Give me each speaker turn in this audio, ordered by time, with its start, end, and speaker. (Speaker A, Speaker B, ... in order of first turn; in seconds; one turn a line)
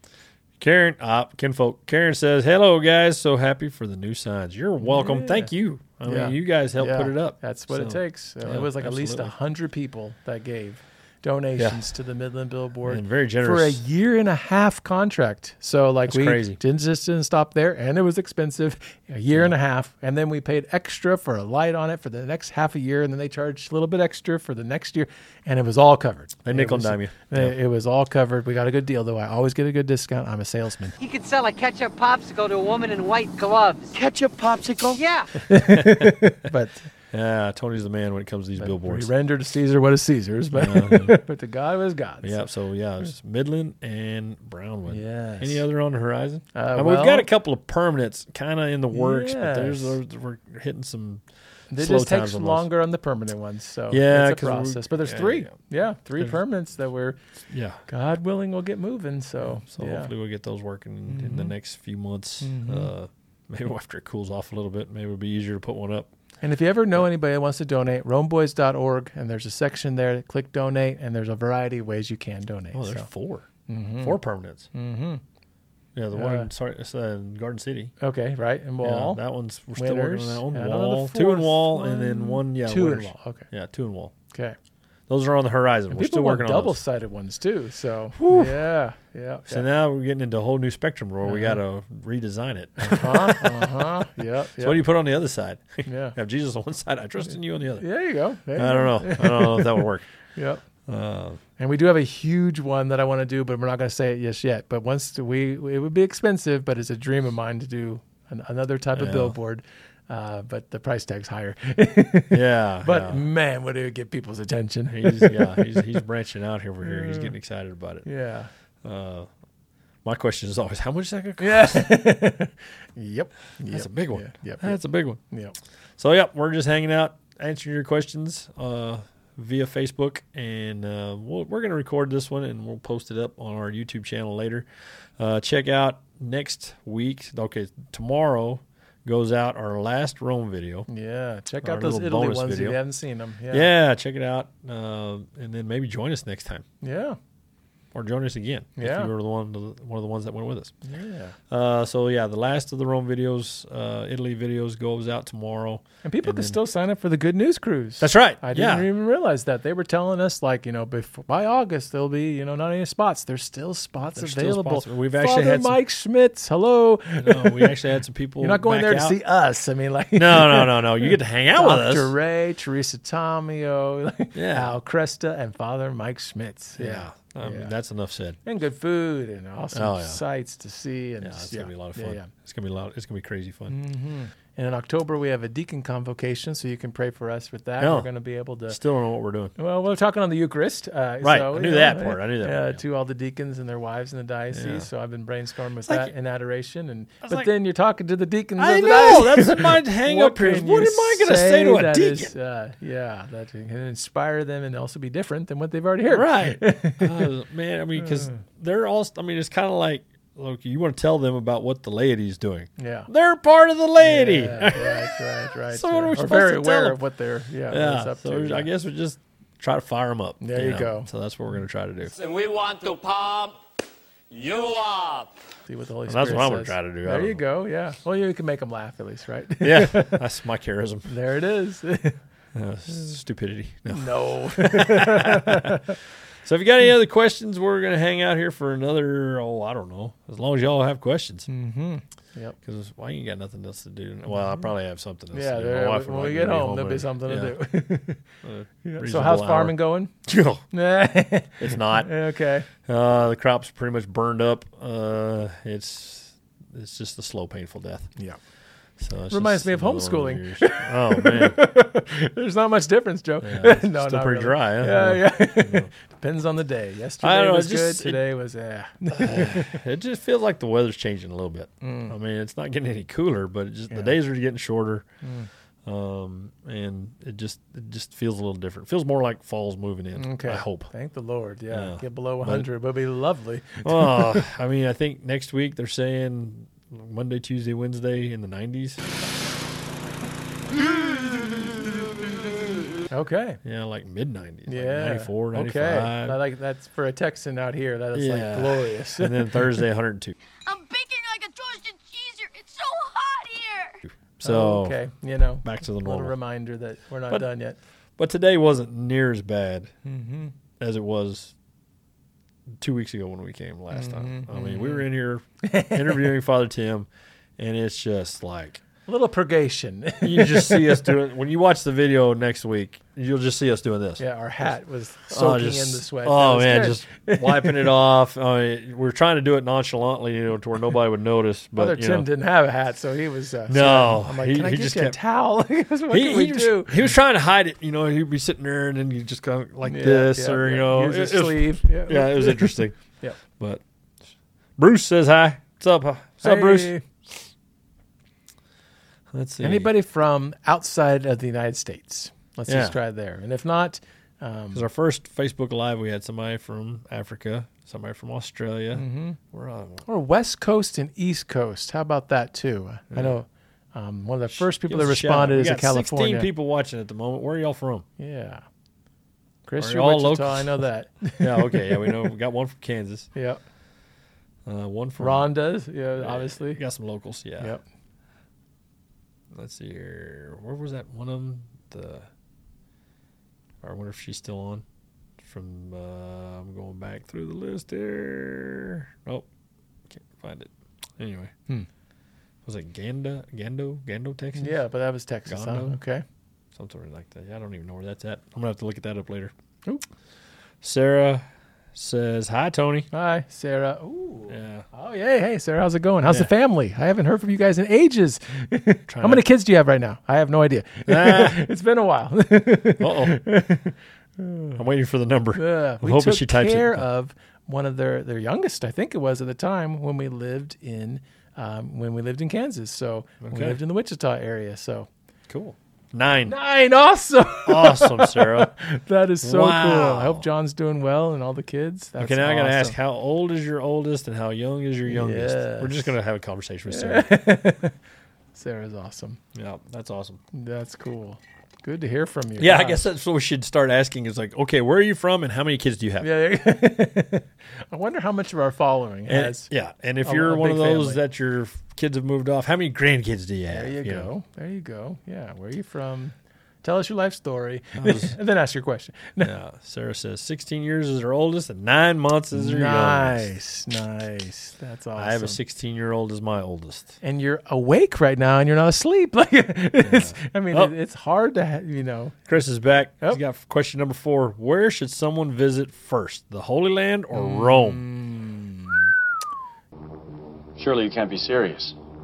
Speaker A: 0.6-9.3
Speaker B: 4.8-5.5
Speaker B: 6.0-30.9
Speaker A: 11.6-11.8
Speaker A: 12.8-13.8
Speaker A: 16.1-16.6
Speaker A: 26.4-27.5
Speaker C: 31.0-35.3
Speaker B: 35.5-36.9
Speaker A: 35.5-36.1
Speaker A: 37.1-39.1
Speaker B: 38.6-42.4
Speaker A: 40.5-41.2
Speaker A: 42.2-51.2
Speaker B: 44.9-45.6
Speaker B: 46.5-47.3
Speaker B: 48.9-50.0
Speaker B: 51.7-57.2
Speaker A: 51.7-52.7
Speaker A: 53.9-55.5
Speaker A: 57.5-57.8
Speaker B: 57.9-60.1
Speaker A: 59.4-66.1
Speaker B: 61.1-61.5
Speaker B: 62.4-62.9
Speaker B: 66.4-73.1
Speaker A: 72.7-73.5
Speaker B: 73.7-74.2
Speaker A: 74.0-74.7
Speaker B: 74.7-75.2
Speaker A: 75.9-77.9
Speaker B: 76.1-76.5
Speaker B: 78.0-79.2
Speaker A: 78.8-84.1
Speaker B: 79.7-83.5
Speaker A: 85.1-86.8
Speaker B: 85.9-89.6
Speaker A: 88.2-88.7
Speaker A: 89.5-94.0
Speaker B: 91.2-91.6
Speaker B: 92.8-94.8
Speaker A: 94.6-97.8
Speaker B: 95.8-96.2
Speaker B: 97.8-100.6
Speaker A: 98.5-100.0
Speaker A: 100.8-101.4
Speaker B: 101.6-116.0
Speaker A: 108.9-109.3
Speaker A: 112.3-113.2
Speaker A: 114.9-118.0
Speaker B: 116.8-117.3
Speaker B: 118.0-118.5
Speaker A: 118.8-119.3
Speaker A: 120.0-121.9
Speaker B: 121.4-125.5
Speaker A: 123.7-125.2
Speaker A: 126.0-134.7
Speaker A: 135.2-140.9
Speaker B: 140.9-143.7
Speaker A: 141.6-142.8
Speaker A: 143.5-146.6
Speaker B: 146.8-147.2
Speaker A: 147.9-150.7
Speaker B: 148.8-149.1
Speaker B: 150.8-151.4
Speaker A: 151.5-156.6
Speaker B: 156.0-167.8
Speaker A: 158.0-158.9
Speaker A: 164.1-165.8
Speaker A: 167.2-169.2
Speaker B: 168.4-177.7
Speaker A: 170.1-172.1
Speaker A: 174.3-174.7
Speaker A: 176.8-178.4
Speaker B: 178.4-182.3
Speaker A: 179.7-180.2
Speaker A: 181.2-183.7
Speaker B: 183.7-188.8
Speaker A: 187.8-188.1
Speaker A: 188.7-189.5
Speaker B: 189.6-207.3
Speaker A: 191.2-192.8
Speaker A: 194.5-194.9
Speaker A: 195.8-196.1
Speaker A: 197.2-197.5
Speaker A: 198.6-202.3
Speaker A: 206.1-217.0
Speaker B: 208.0-208.4
Speaker B: 212.8-213.1
Speaker B: 214.0-218.7
Speaker A: 217.7-222.1
Speaker B: 220.4-221.1
Speaker D: 222.3-223.2
Speaker D: 224.7-225.2
Speaker B: 225.7-230.2
Speaker A: 226.1-227.4
Speaker A: 229.6-231.1
Speaker B: 231.1-232.2
Speaker A: 232.5-235.8
Speaker B: 233.9-235.9
Speaker A: 236.4-241.5
Speaker B: 241.5-242.6
Speaker A: 242.6-247.6
Speaker B: 245.3-248.2
Speaker A: 248.4-250.6
Speaker B: 248.8-250.1
Speaker B: 250.7-252.7
Speaker A: 251.6-252.1
Speaker A: 252.7-258.1
Speaker A: 259.0-261.6
Speaker B: 259.3-269.8
Speaker A: 263.4-265.9
Speaker A: 267.2-268.2
Speaker A: 269.1-275.1
Speaker B: 271.8-272.1
Speaker B: 273.9-274.1
Speaker B: 275.2-275.5
Speaker A: 275.9-280.9
Speaker B: 280.1-284.4
Speaker A: 281.7-282.7
Speaker A: 283.8-289.1
Speaker B: 293.1-293.6
Speaker A: 293.6-296.4
Speaker B: 294.7-299.8
Speaker A: 298.1-300.4
Speaker E: 300.6-304.0
Speaker A: 304.4-305.0
Speaker B: 304.4-307.8
Speaker A: 305.6-306.3
Speaker A: 308.2-309.9
Speaker B: 310.0-310.5
Speaker A: 310.8-311.5
Speaker A: 312.8-318.8
Speaker B: 313.9-315.1
Speaker B: 315.6-316.3
Speaker B: 319.1-321.1
Speaker A: 320.2-324.2
Speaker B: 324.2-327.9
Speaker A: 325.3-332.3
Speaker B: 331.8-337.1
Speaker A: 333.7-335.2
Speaker A: 336.1-342.9
Speaker B: 339.8-343.4
Speaker A: 343.5-343.8
Speaker A: 344.8-346.9
Speaker B: 346.4-347.0
Speaker A: 349.3-349.9
Speaker B: 349.6-354.9
Speaker A: 352.7-353.0
Speaker A: 354.7-360.0
Speaker B: 358.9-359.4
Speaker B: 360.1-366.5
Speaker A: 364.5-368.1
Speaker B: 368.2-368.6
Speaker B: 369.6-372.2
Speaker A: 369.8-370.8
Speaker A: 371.4-373.3
Speaker B: 373.3-373.6
Speaker A: 374.6-375.5
Speaker B: 375.2-376.8
Speaker A: 376.2-377.7
Speaker A: 379.5-382.3
Speaker A: 383.8-384.8
Speaker A: 385.4-389.4
Speaker A: 390.1-391.5
Speaker A: 392.6-394.8
Speaker B: 394.5-396.2
Speaker A: 395.5-396.0
Speaker A: 396.7-399.5
Speaker A: 400.8-403.1
Speaker B: 403.1-414.8
Speaker A: 404.5-404.9
Speaker A: 409.1-409.4
Speaker A: 411.1-411.6
Speaker A: 413.0-413.4
Speaker A: 414.8-417.0
Speaker B: 415.6-425.1
Speaker A: 423.4-423.8
Speaker A: 425.5-426.5
Speaker B: 426.4-432.9
Speaker A: 427.6-428.7
Speaker A: 429.4-430.4
Speaker A: 432.2-437.3
Speaker B: 435.1-436.1
Speaker B: 436.9-437.9
Speaker B: 438.5-439.4
Speaker A: 439.5-440.4
Speaker B: 440.5-443.1
Speaker A: 442.6-446.3
Speaker B: 446.2-449.7
Speaker A: 449.3-454.3
Speaker B: 450.2-451.2
Speaker B: 453.7-459.5
Speaker A: 458.0-458.4
Speaker A: 459.4-463.5
Speaker B: 462.5-465.6
Speaker A: 465.1-467.1
Speaker B: 467.2-472.4
Speaker A: 470.0-470.9
Speaker A: 472.5-478.0
Speaker B: 477.3-479.1
Speaker D: 480.8-481.9